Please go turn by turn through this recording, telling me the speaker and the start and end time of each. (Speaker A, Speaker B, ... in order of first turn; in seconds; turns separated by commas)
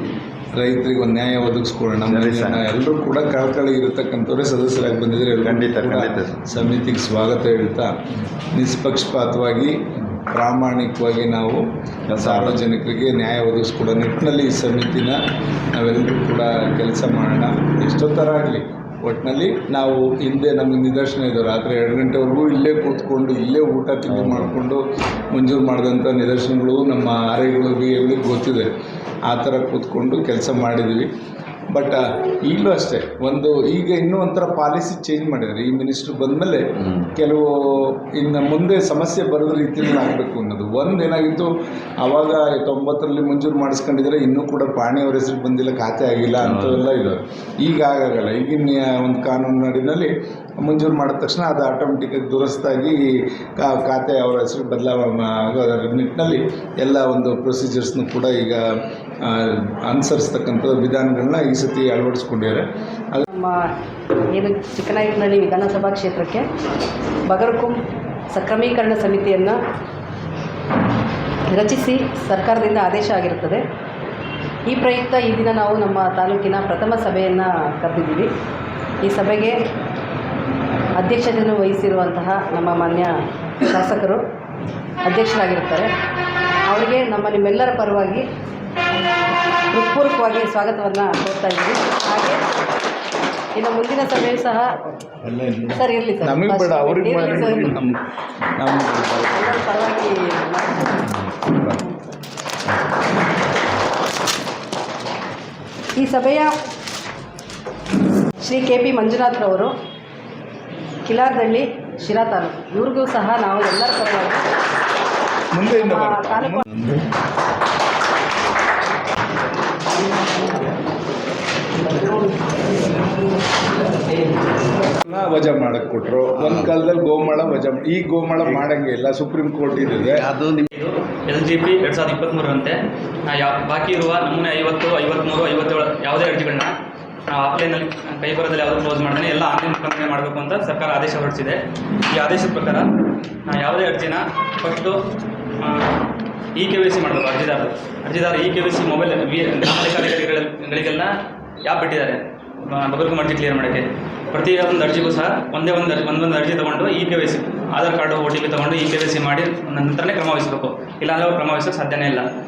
Speaker A: 0.6-11.7, Speaker B: 2.0-2.7, Speaker B: 5.3-6.4, Speaker B: 12.1-12.6, Speaker A: 12.3-15.2, Speaker A: 15.7-28.7, Speaker B: 24.1-24.6, Speaker A: 29.3-31.1, Speaker A: 31.7-58.6, Speaker B: 36.8-37.1, Speaker B: 46.4-46.9, Speaker A: 59.2-63.2, Speaker C: 63.2-63.7, Speaker C: 64.3-66.5, Speaker C: 67.2-67.8, Speaker C: 68.3-69.6, Speaker C: 71.5-73.6, Speaker C: 74.7-78.3, Speaker C: 79.0-79.6, Speaker C: 81.0-84.2, Speaker C: 85.0-85.9, Speaker C: 86.7-88.2, Speaker C: 89.7-92.5, Speaker C: 93.5-94.9, Speaker A: 95.2-98.0, Speaker C: 95.7-97.8, Speaker A: 98.6-99.4, Speaker C: 99.3-101.2, Speaker C: 101.8-102.2, Speaker C: 106.0-106.5, Speaker C: 108.4-109.7, Speaker C: 111.0-114.5, Speaker A: 115.5-117.1, Speaker C: 115.6-116.7, Speaker C: 121.8-122.3, Speaker A: 125.0-130.2, Speaker B: 126.3-126.7, Speaker B: 128.4-128.7, Speaker B: 129.9-130.7, Speaker D: 130.7-136.7, Speaker D: 137.3-142.9, Speaker D: 143.5-145.0, Speaker D: 145.6-162.2